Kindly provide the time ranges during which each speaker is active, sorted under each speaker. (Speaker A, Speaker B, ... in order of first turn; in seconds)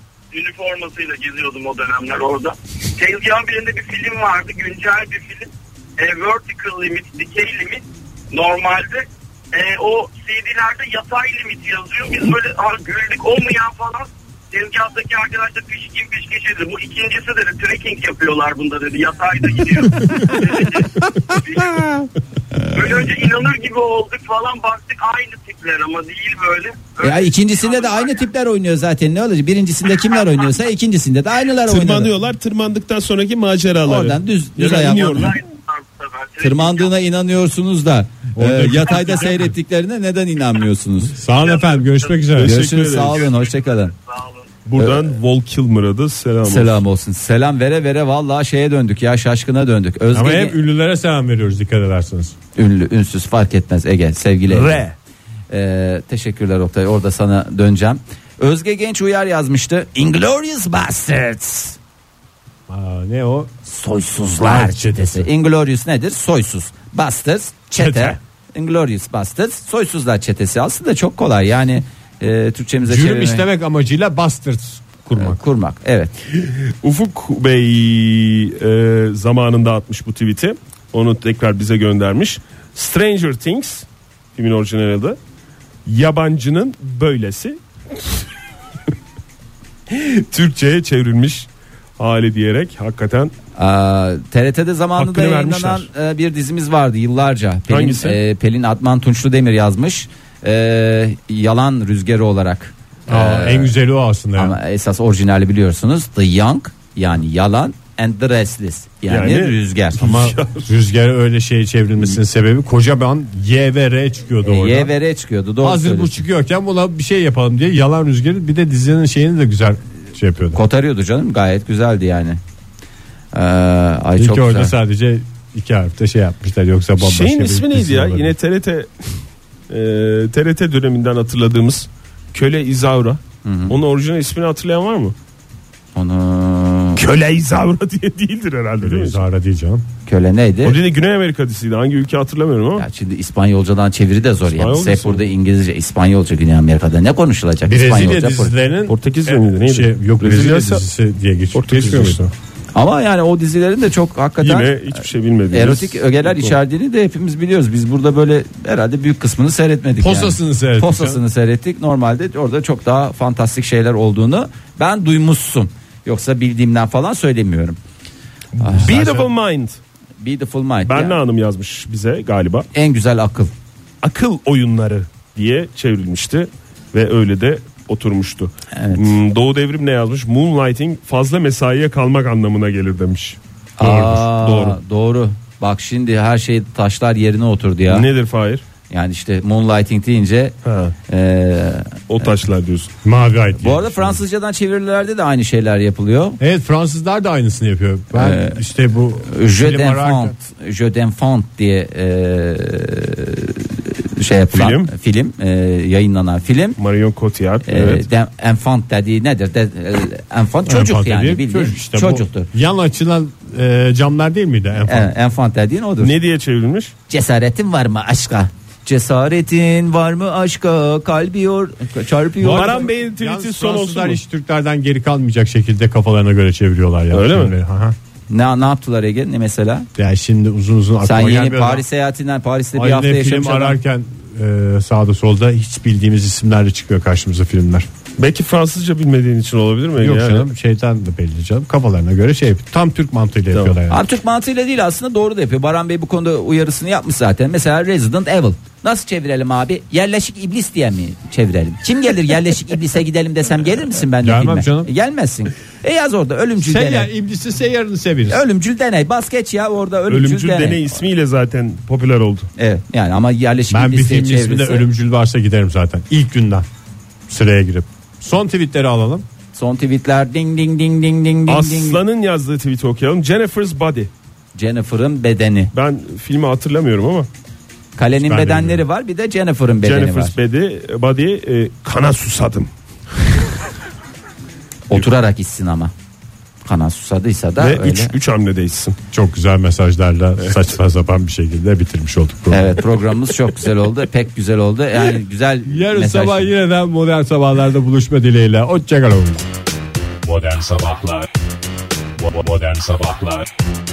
Speaker A: 0.3-22.0, 22.7-28.3, 35.1-36.9, 41.4-42.2
Speaker B: 27.0-32.1, 33.8-35.4, 36.4-41.2, 42.4-43.9, 44.8-45.1, 46.4-50.6, 52.5-54.8, 55.5-61.8, 63.6-73.5, 75.1-76.1, 93.6-103.7, 104.3-110.3, 114.4-116.2, 120.5-122.4, 123.3-124.7, 133.4-133.8, 135.9-137.0, 140.1-140.8, 142.8-148.5, 152.7-167.8, 168.6-169.3, 170.2-171.2, 172.7-173.5, 178.7-179.2, 183.8-188.1, 188.9-190.5, 191.1-191.9, 193.6-196.4, 198.1-198.6, 199.2-206.8, 207.6-212.5, 214.8-216.1, 217.1-222.9, 228.3-229.9, 231.0-233.8, 243.9-257.1, 258.3-261.0, 262.6-264.9, 269.5-272.0, 274.6-275.7, 277.9-280.3, 284.9-285.9, 286.6-288.1, 292.5-296.5
Speaker C: 31.7-35.4, 42.3-43.3, 44.6-46.8, 54.5-54.9, 76.4-85.2, 85.8-87.6, 89.9-91.5, 92.0-93.3, 95.0-95.9, 97.7-98.2, 109.1-110.7, 127.0-135.1, 136.9-139.2, 140.6-142.8, 144.4-145.2, 148.9-150.8, 151.5-152.2, 154.4-156.6, 168.6-169.8, 170.9-172.7, 174.0-184.8, 187.9-188.6, 190.6-190.9, 192.1-192.9, 204.5-204.9, 206.8-208.0, 216.0-216.9, 222.4-224.2, 227.1-227.5, 238.2-240.5, 243.5-243.8, 260.1-262.5, 271.5-274.1, 275.7-277.3, 279.8-283.5, 287.6-289.0
Speaker D: 38.4-39.5, 41.1-42.7, 50.1-52.3, 62.7-63.5, 64.3-65.3, 67.8-68.1, 72.8-75.4, 103.1-104.6, 110.0-114.9, 115.6-120.6, 124.2-128.3, 138.8-139.8, 147.7-152.3, 160.0-161.2, 193.0-194.2, 196.4-200.3, 210.7-215.1, 222.4-227.9, 230.0-231.8, 232.7-237.9, 240.0-244.0, 254.2-254.9, 256.6-258.4, 263.7-266.6, 267.3-269.2, 278.1-278.8, 289.1-293.0, 295.7-299.4
Speaker E: 300.2-301.3, 302.2-303.5